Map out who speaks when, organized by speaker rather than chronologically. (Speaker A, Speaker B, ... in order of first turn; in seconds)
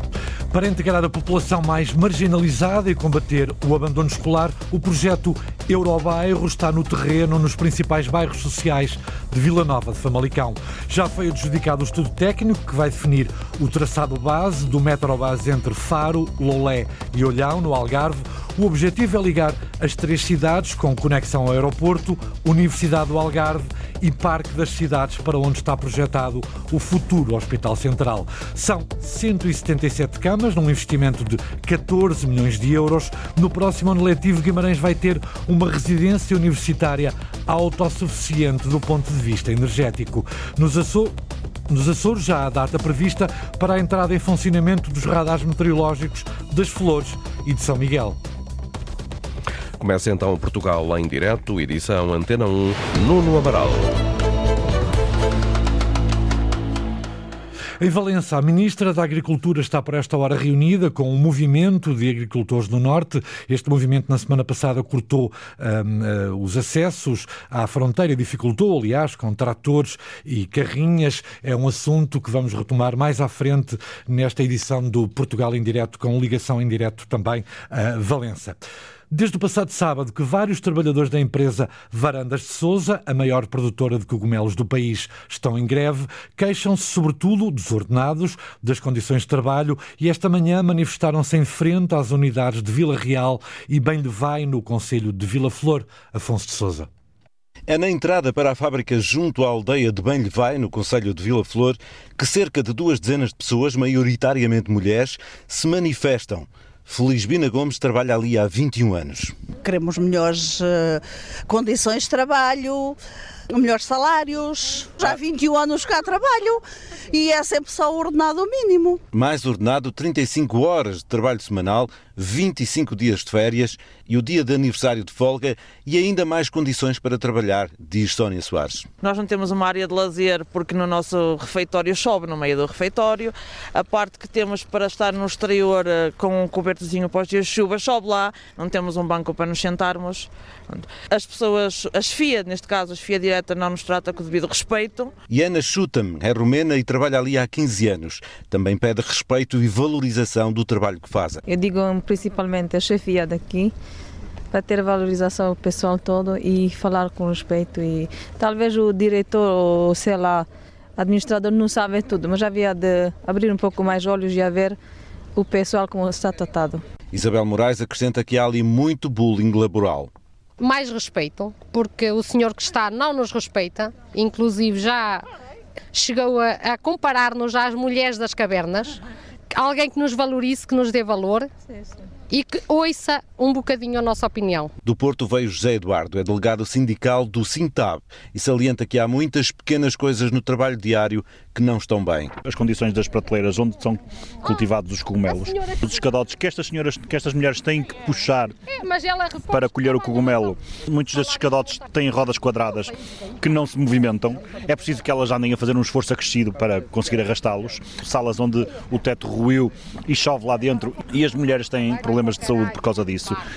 Speaker A: 0.5-41.1, 41.7-48.2, 57.8-78.6, 79.1-96.9
Speaker B: 49.8-54.0
Speaker C: 97.7-109.3, 119.1-128.9, 145.3-151.4, 167.1-170.1, 184.8-192.3
Speaker D: 109.6-113.0, 113.5-119.0
Speaker E: 129.0-145.1
Speaker F: 151.5-153.7, 154.5-164.8, 165.3-166.8
Speaker G: 170.6-175.2, 175.9-179.0, 179.5-181.5, 182.3-184.7, 198.8-199.4
Speaker H: 192.5-194.0, 194.5-195.4, 196.0-198.5, 199.5-202.8, 203.4-213.3